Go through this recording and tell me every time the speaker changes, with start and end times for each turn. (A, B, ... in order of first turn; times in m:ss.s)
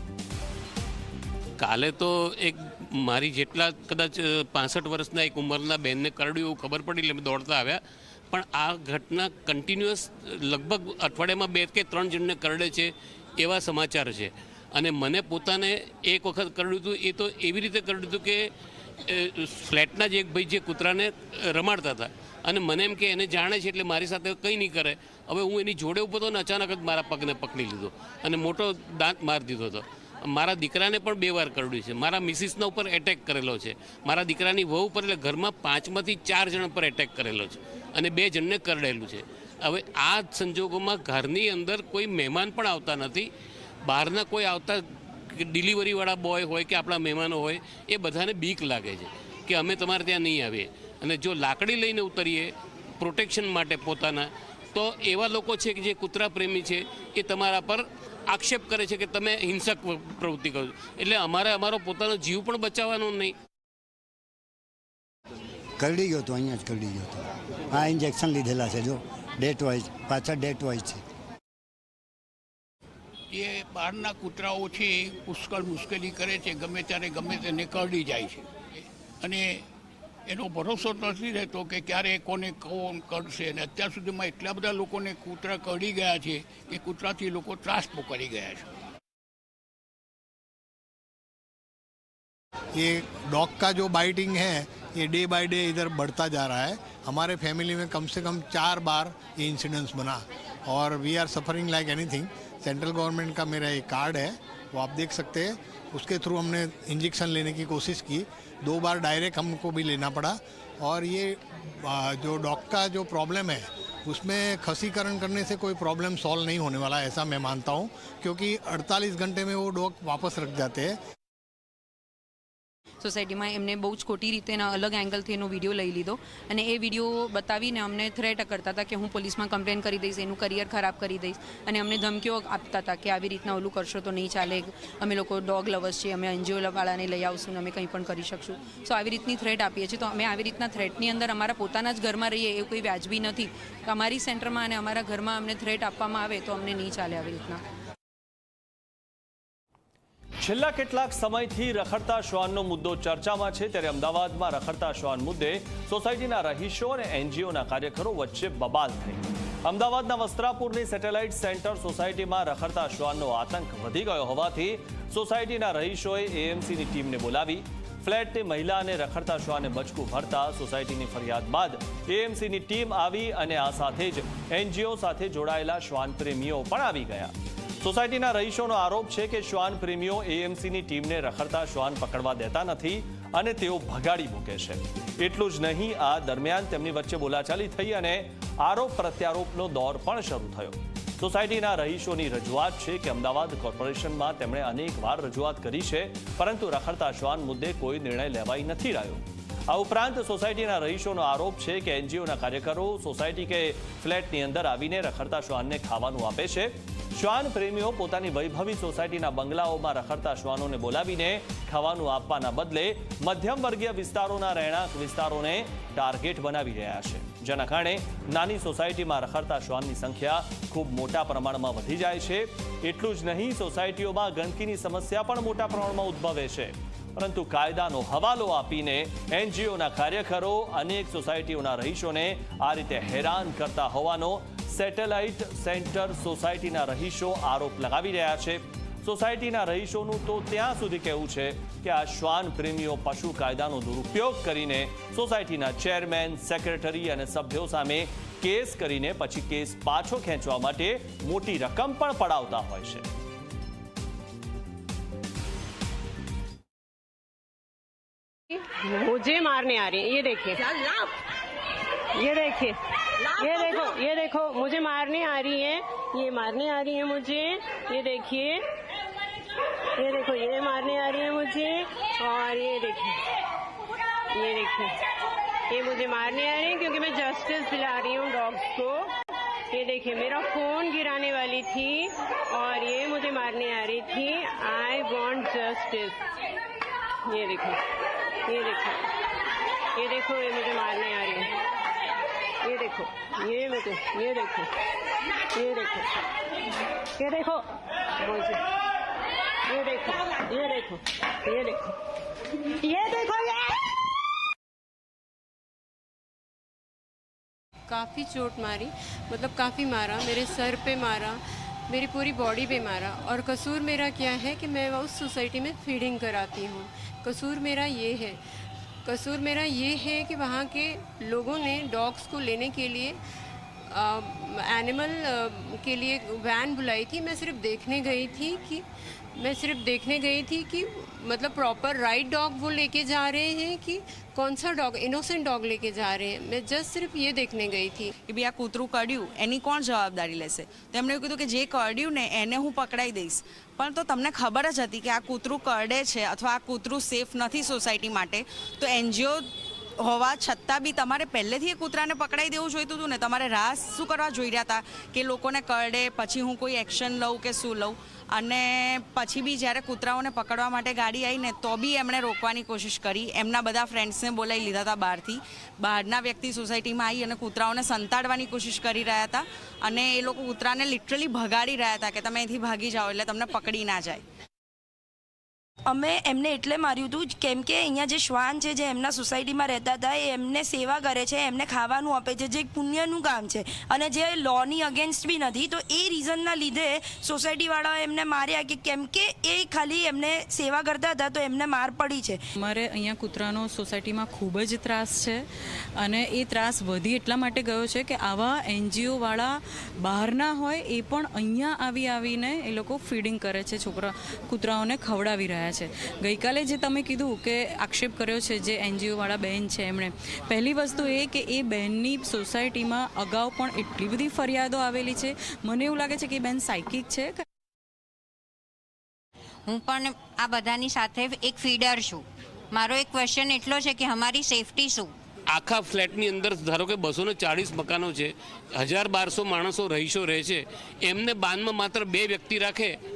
0:01.6-0:07.8 A
0:08.3-0:18.4 A
0:19.1-0:43.3 A
0:43.8-1:03.3 A
1:05.8-1:07.1 B
1:06.3-1:06.7 C
1:07.7-1:08.9 B
1:08.0-1:08.9 C
1:09.4-1:10.9 B
1:09.5-1:10.9 C
1:13.3-1:19.6 D
1:20.3-1:28.6 D
1:32.7-2:01.0 E
2:03.0-2:27.6 F
2:30.4-4:13.0 G
4:18.5-4:20.6 H
4:22.1-4:22.8 H
4:23.3-4:28.6 H
4:30.0-4:33.2 H
4:34.3-4:35.0 H
4:35.7-4:39.1 H
4:39.7-4:46.2 H
4:47.2-4:47.8 H
4:48.4-4:49.1 H
4:49.9-4:51.5 H
4:52.6-4:54.7 H
4:55.5-4:56.1 H
4:57.2-4:57.7 H
4:58.2-4:58.6 H
4:59.7-5:01.9 H
5:02.9-5:03.3 H
5:07.9-5:23.2 H
5:23.9-5:38.1 H
5:38.2-6:14.2 I
6:15.9-6:32.4 C
6:32.6-6:35.4 J
6:36.0-6:57.4 J
6:59.7-7:05.1 K
7:05.5-7:13.0 A